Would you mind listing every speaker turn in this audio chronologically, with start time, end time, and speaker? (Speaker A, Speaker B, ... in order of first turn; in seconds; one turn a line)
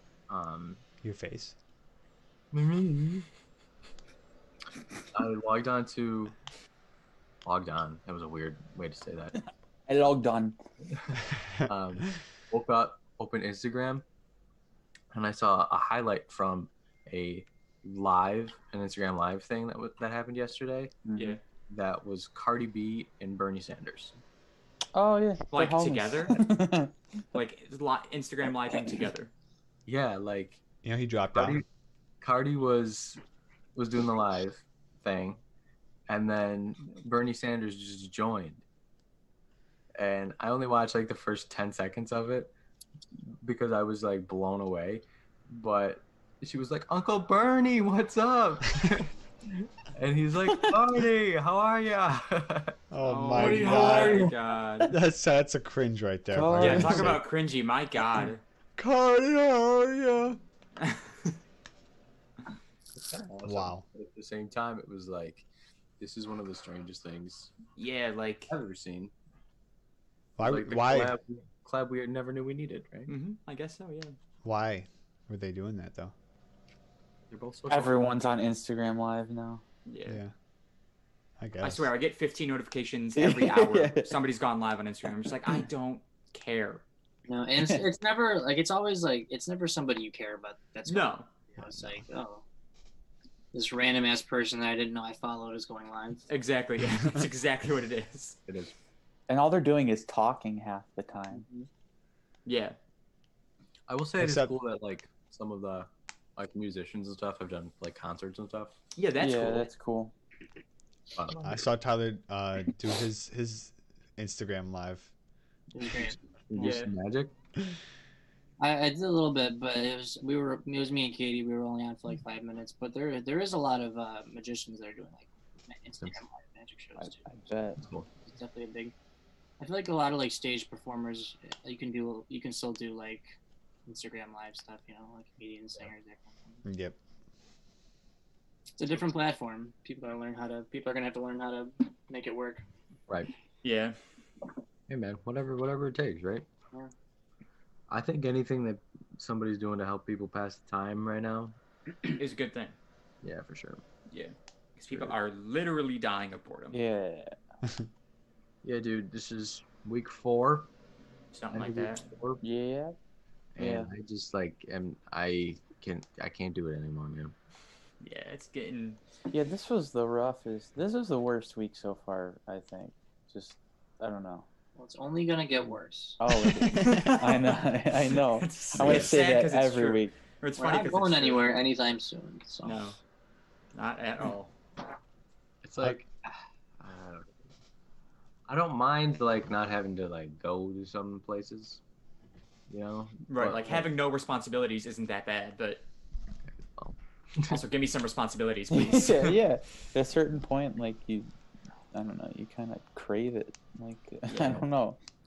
Speaker A: 0.3-0.8
Speaker B: 1.0-1.6
Speaker A: 2.5-3.3
Speaker A: 5.1-6.3
Speaker A: 7.5-9.3
Speaker C: 9.9-10.6
Speaker A: 10.9-14.0
Speaker A: 15.1-21.0
Speaker C: 21.1-21.4
Speaker A: 21.7-24.1
Speaker C: 24.9-26.9
Speaker D: 25.5-26.4
Speaker D: 27.3-29.3
Speaker A: 29.9-30.6
Speaker B: 30.8-31.6
Speaker A: 31.3-31.6
Speaker A: 32.2-33.2
Speaker A: 33.8-35.4
Speaker A: 36.1-38.6
Speaker A: 40.0-42.5
Speaker A: 43.4-52.8
Speaker B: 52.9-54.3
Speaker D: 53.0-55.0
Speaker A: 53.3-54.4
Speaker B: 54.9-57.2
Speaker C: 56.3-57.2
Speaker D: 56.6-58.4
Speaker B: 58.8-60.4
Speaker D: 60.8-61.4
Speaker A: 63.0-65.5
Speaker B: 63.5-63.8
Speaker A: 66.0-67.5
Speaker D: 67.8-68.5
Speaker A: 68.5-69.1
Speaker B: 70.4-71.2
Speaker A: 70.4-73.1
Speaker D: 73.1-74.2
Speaker B: 74.4-76.1
Speaker A: 77.3-78.0
Speaker C: 77.7-79.6
Speaker D: 79.9-80.2
Speaker B: 80.1-80.3
Speaker B: 81.4-81.9
Speaker D: 81.6-86.8
Speaker C: 83.2-84.1
Speaker E: 87.3-92.4
Speaker D: 90.9-91.3
Speaker E: 93.5-96.3
Speaker D: 96.3-98.4
Speaker A: 98.5-98.7
Speaker C: 99.3-101.5
Speaker E: 101.3-101.7
Speaker D: 102.5-102.8
Speaker A: 103.9-108.8
Speaker B: 104.2-104.5
Speaker D: 109.0-109.7
Speaker C: 109.2-110.1
Speaker A: 111.2-111.6
Speaker B: 111.4-115.1
Speaker E: 115.7-116.2
Speaker A: 116.5-117.3
Speaker D: 116.6-116.9
Speaker E: 118.6-127.3
Speaker C: 127.0-127.8
Speaker A: 127.8-128.1
Speaker E: 128.2-128.9
Speaker E: 129.6-133.3
Speaker E: 133.9-136.6
Speaker B: 136.7-137.0
Speaker E: 138.8-142.6
Speaker D: 143.6-144.0
Speaker A: 144.9-146.5
Speaker A: 147.9-151.6
Speaker D: 152.2-152.8
Speaker A: 153.2-153.8
Speaker D: 154.1-156.8
Speaker C: 156.7-157.3
Speaker A: 158.6-160.7
Speaker D: 161.3-162.1
Speaker A: 161.5-162.4
Speaker C: 162.4-163.0
Speaker A: 163.6-167.3
Speaker C: 163.6-163.9
Speaker D: 168.0-169.0
Speaker C: 169.3-174.5
Speaker E: 174.8-176.2
Speaker C: 176.2-180.1
Speaker B: 176.6-177.4
Speaker D: 176.8-177.6
Speaker D: 178.1-181.5
Speaker B: 178.8-179.2
Speaker E: 180.6-182.9
Speaker D: 182.6-183.0
Speaker D: 183.7-184.5
Speaker A: 185.6-186.1
Speaker A: 186.8-187.3
Speaker A: 188.5-191.8
Speaker A: 192.7-193.9
Speaker D: 193.3-195.8
Speaker A: 196.5-197.6
Speaker D: 197.5-199.4
Speaker C: 198.7-201.3
Speaker C: 201.9-205.0
Speaker D: 204.3-204.6